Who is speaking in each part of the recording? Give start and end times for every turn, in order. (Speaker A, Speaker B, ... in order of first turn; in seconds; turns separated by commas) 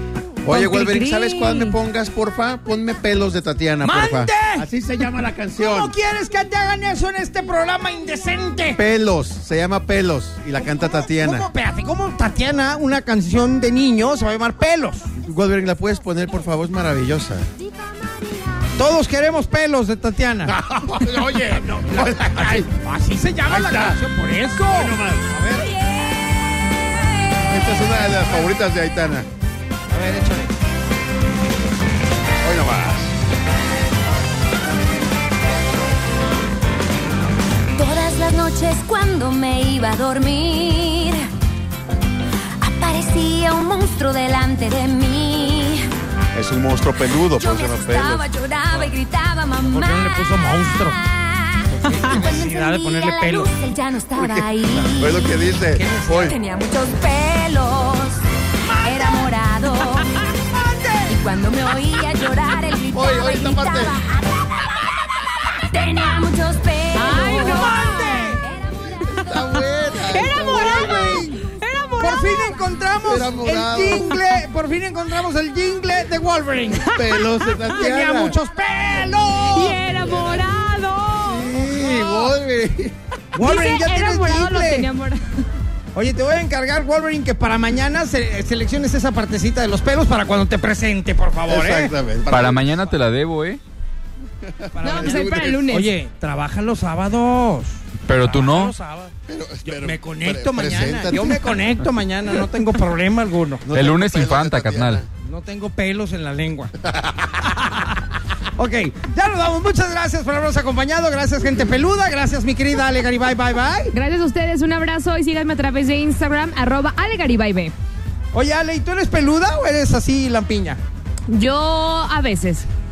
Speaker A: 0.4-5.9, Speaker B: 0.5-1.8, Speaker C: 3.8-4.7, Speaker C: 5.6-8.8, Speaker A: 8.7-11.5, Speaker C: 10.7-15.1, Speaker A: 15.2-17.5, Speaker D: 17.6-18.7, Speaker C: 18.8-20.6, Speaker A: 20.4-22.7, Speaker C: 21.6-25.7, Speaker A: 23.5-24.0, Speaker A: 24.7-25.3, Speaker D: 25.8-26.8, Speaker A: 27.5-29.3, Speaker C: 29.9-30.5, Speaker A: 32.4-33.1, Speaker D: 37.7-41.3, Speaker D: 42.6-45.9, Speaker A: 46.3-48.3, Speaker D: 47.3-55.3, Speaker C: 49.6-51.0, Speaker C: 51.7-53.5, Speaker A: 54.2-56.3, Speaker C: 55.7-56.3, Speaker D: 56.3-58.2, Speaker C: 58.8-59.2, Speaker D: 58.8-60.3, Speaker C: 60.5-61.1, Speaker D: 61.1-64.9, Speaker A: 62.9-64.0, Speaker D: 65.7-67.7, Speaker B: 67.0-68.4, Speaker C: 67.1-68.4, Speaker D: 68.4-69.2, Speaker A: 69.0-71.3, Speaker B: 70.0-72.6, Speaker C: 70.5-71.2, Speaker C: 72.0-77.0, Speaker A: 73.0-74.2, Speaker A: 76.9-78.4, Speaker B: 77.2-77.7, Speaker C: 77.7-79.8, Speaker B: 79.5-82.2, Speaker A: 79.9-80.5, Speaker A: 81.1-83.0, Speaker C: 83.3-84.9, Speaker B: 83.4-85.4, Speaker C: 86.0-91.9, Speaker A: 91.5-92.9, Speaker E: 92.3-93.6, Speaker A: 94.4-95.7, Speaker C: 94.7-99.1, Speaker B: 94.8-95.9, Speaker E: 98.0-98.7, Speaker A: 99.3-101.5, Speaker C: 99.7-103.6, Speaker A: 103.6-105.0, Speaker E: 103.7-105.0, Speaker C: 105.2-106.7, Speaker A: 106.9-107.3, Speaker C: 107.5-108.0, Speaker C: 108.6-113.9, Speaker B: 113.9-117.7, Speaker C: 118.3-120.8, Speaker B: 121.3-122.7